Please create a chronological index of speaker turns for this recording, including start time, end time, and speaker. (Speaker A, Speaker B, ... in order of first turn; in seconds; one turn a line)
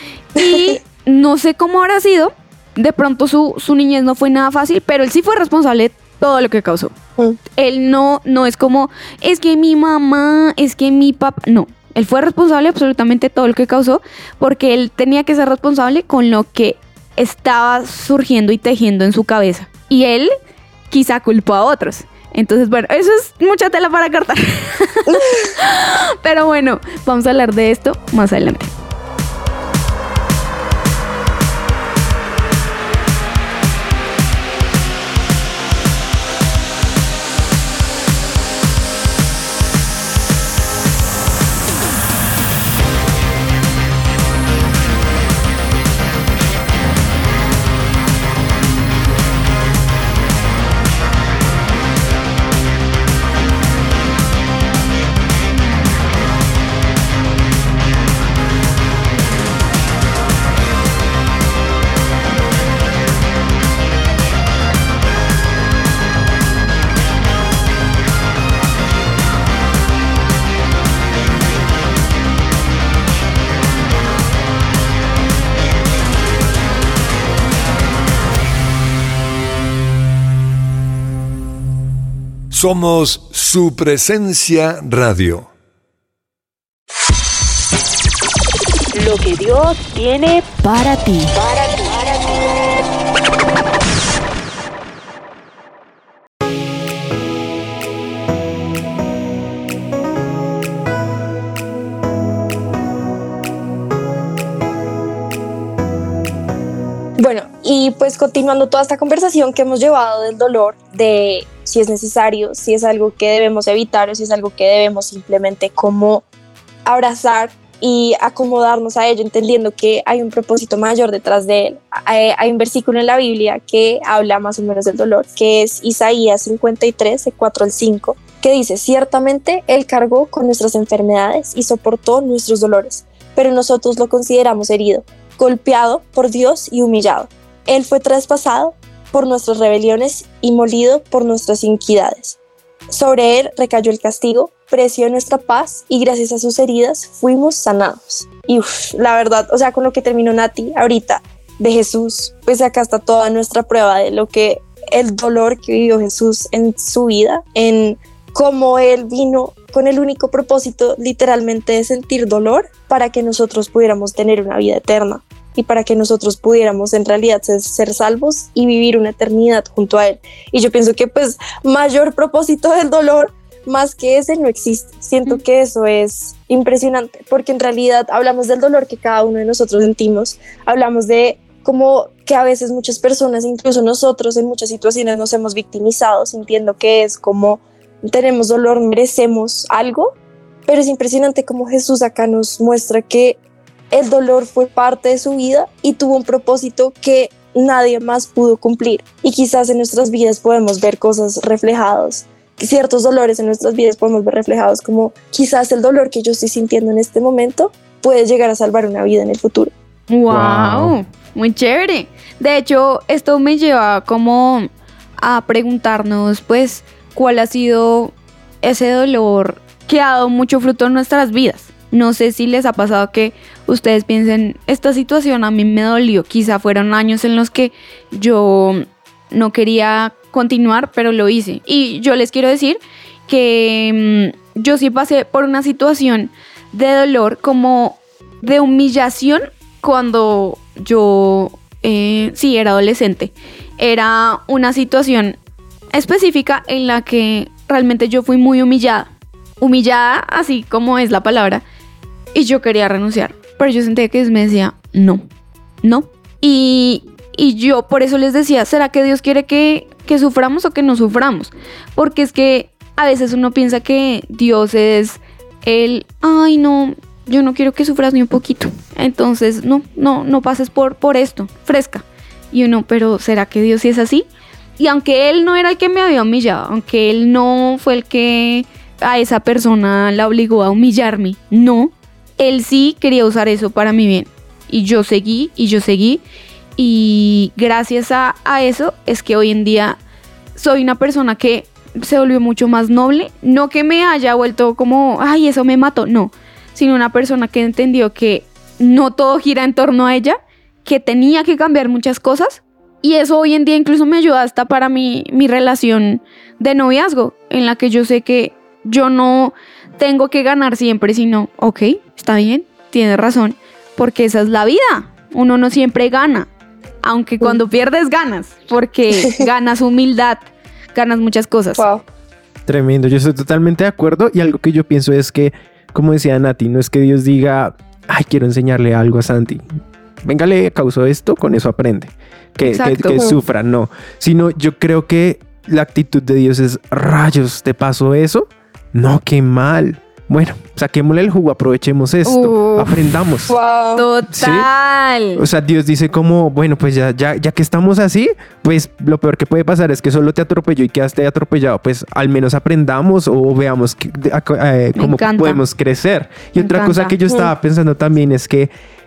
Speaker A: 0.3-6.9
Speaker B: 0.4-0.8
Speaker A: 7.5-20.3
Speaker A: 20.9-28.7
Speaker C: 82.5-85.5
Speaker D: 88.9-92.5
Speaker B: 107.2-116.2
Speaker B: 116.9-142.4
Speaker B: 142.9-190.1
Speaker B: 190.7-193.4
Speaker B: 193.9-209.7
Speaker A: 210.1-214.7
Speaker E: 210.3-211.0
Speaker A: 215.2-245.4
Speaker A: 245.9-251.6
Speaker A: 252.3-255.2
Speaker A: 255.8-286.2
Speaker A: 286.8-290.0
Speaker A: 290.6-316.5
Speaker A: 317.0-321.8
Speaker B: 319.2-319.4
Speaker B: 321.8-322.0
Speaker E: 322.6-329.6
Speaker E: 330.2-343.5
Speaker A: 332.6-333.2
Speaker A: 342.2-342.9
Speaker B: 343.5-344.1
Speaker A: 344.0-345.4
Speaker E: 344.3-344.7
Speaker E: 345.4-358.7
Speaker A: 354.9-355.6
Speaker A: 356.6-357.2